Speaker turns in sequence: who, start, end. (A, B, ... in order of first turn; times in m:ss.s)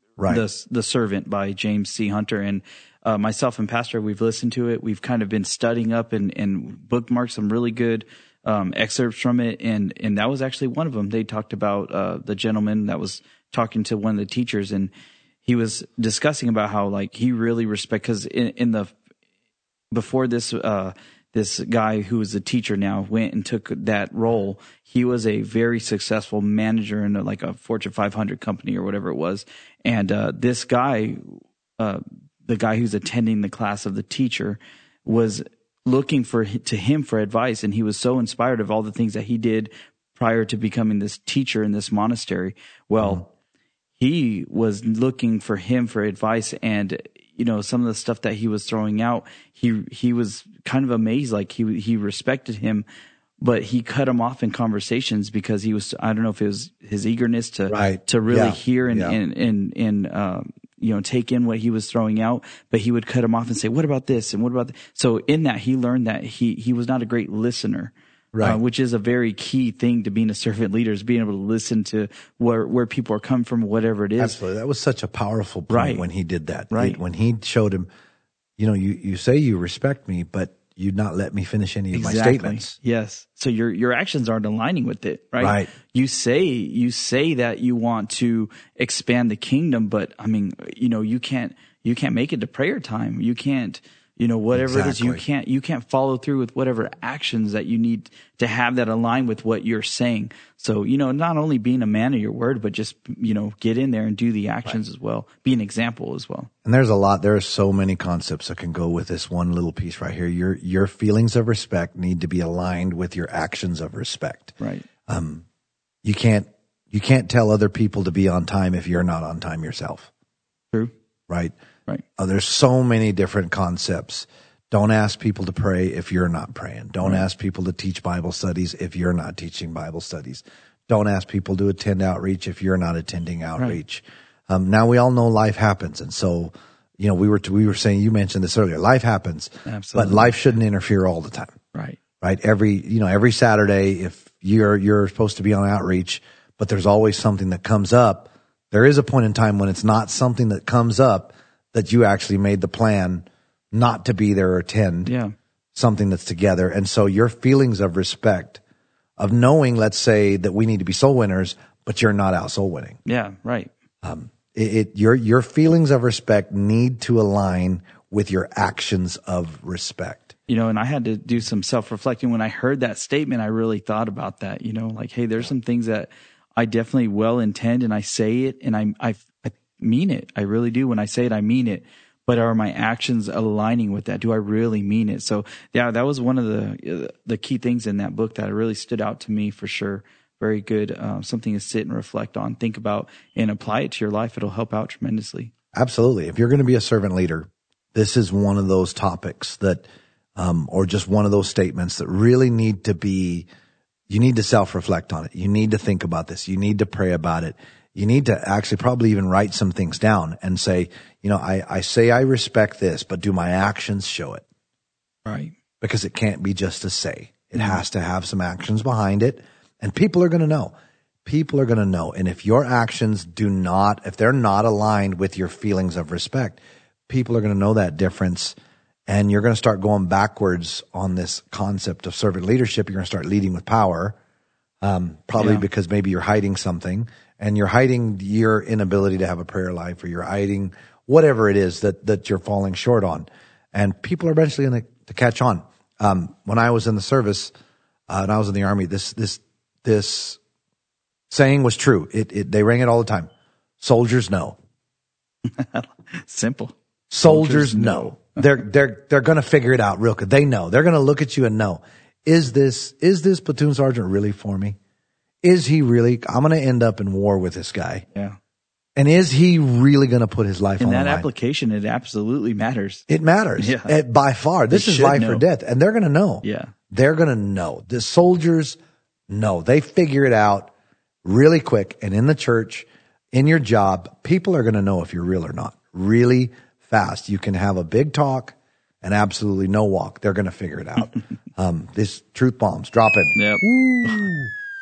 0:00.2-0:00.4 A
0:00.3-0:14.9 B
0:15.4-0:18.9 B
0:19.9-0:43.2 B
0:44.0-0:52.8 B
0:53.4-1:14.4 B
0:57.7-0:59.2 A
1:08.3-1:08.6 A
1:14.2-1:17.9 A
1:15.7-1:16.0 B
1:16.7-1:17.0 B
1:18.6-1:22.7 A
1:21.9-1:46.5 B
1:25.4-1:25.7 A
1:34.5-1:35.2 A
1:46.6-1:55.4 A
1:54.6-1:54.8 B
1:56.0-2:00.1 A
2:01.3-2:01.5 A
2:02.2-2:21.6 A
2:19.6-2:20.4 B
2:21.7-2:22.0 B
2:22.2-2:35.1 A
2:35.0-2:35.3 B
2:35.7-2:38.6 A
2:39.2-2:43.0 A
2:43.0-2:43.7 B
2:44.0-2:50.3 A
2:50.5-3:15.5 B
3:15.7-3:19.8 A
3:20.4-3:23.5 A
3:24.1-3:34.4 A
3:35.2-3:35.5 B
3:35.8-3:40.7 A
3:41.2-3:48.5 A
3:49.1-3:54.2 A
3:54.8-4:07.5 A
3:55.4-3:55.6 B
4:08.1-4:10.4 A
4:11.3-4:14.6 A
4:15.4-4:18.4 B
4:17.1-4:24.8 A
4:25.4-4:28.0 A
4:29.0-4:31.3 A
4:30.8-4:33.0 B
4:33.1-4:38.8 A
4:33.6-4:33.9 B
4:34.7-4:35.4 B
4:36.4-4:36.7 B
4:39.3-4:40.7 A
4:41.2-4:54.5 A
4:53.3-4:54.2 B